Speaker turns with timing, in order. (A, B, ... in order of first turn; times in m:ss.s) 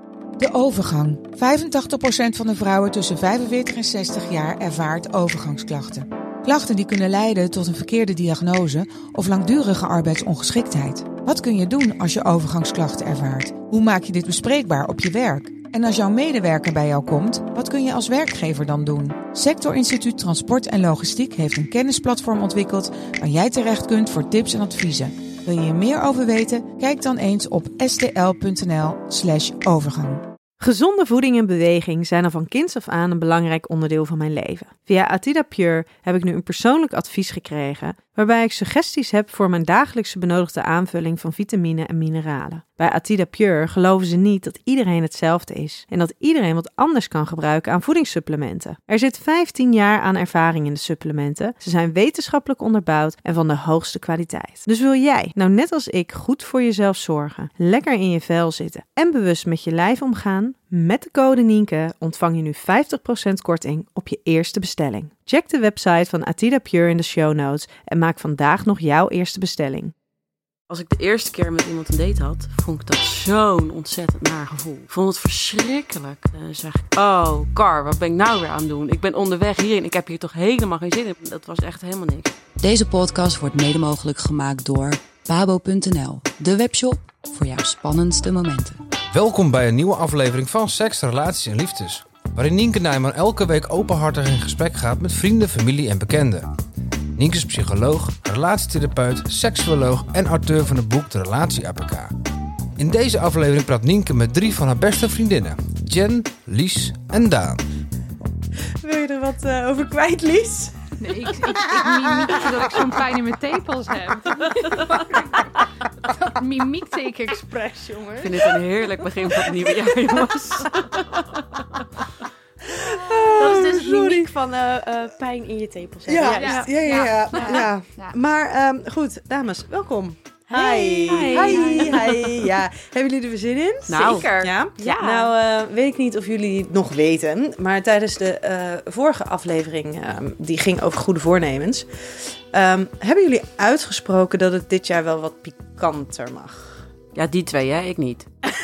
0:00.4-0:30.2 A
0:30.6-1:09.9 B
1:10.7-1:22.3 C
1:22.6-1:28.8 D
1:29.1-1:36.5 E
1:37.2-1:42.1 E
1:42.8-1:47.6 E
1:48.8-1:52.9 B
1:51.0-1:55.5 F
1:56.1-1:57.5 F
1:57.4-1:58.6 B
1:58.2-2:01.2 C
1:59.5-2:00.2 B
2:02.6-2:04.3 B
2:03.4-2:07.6 G
2:06.1-2:26.8 B
2:06.3-2:08.2 F
2:10.5-2:12.5 G
2:11.3-2:12.0 F
2:13.9-2:14.3 C
2:13.9-2:15.3 G
2:27.2-2:28.3 C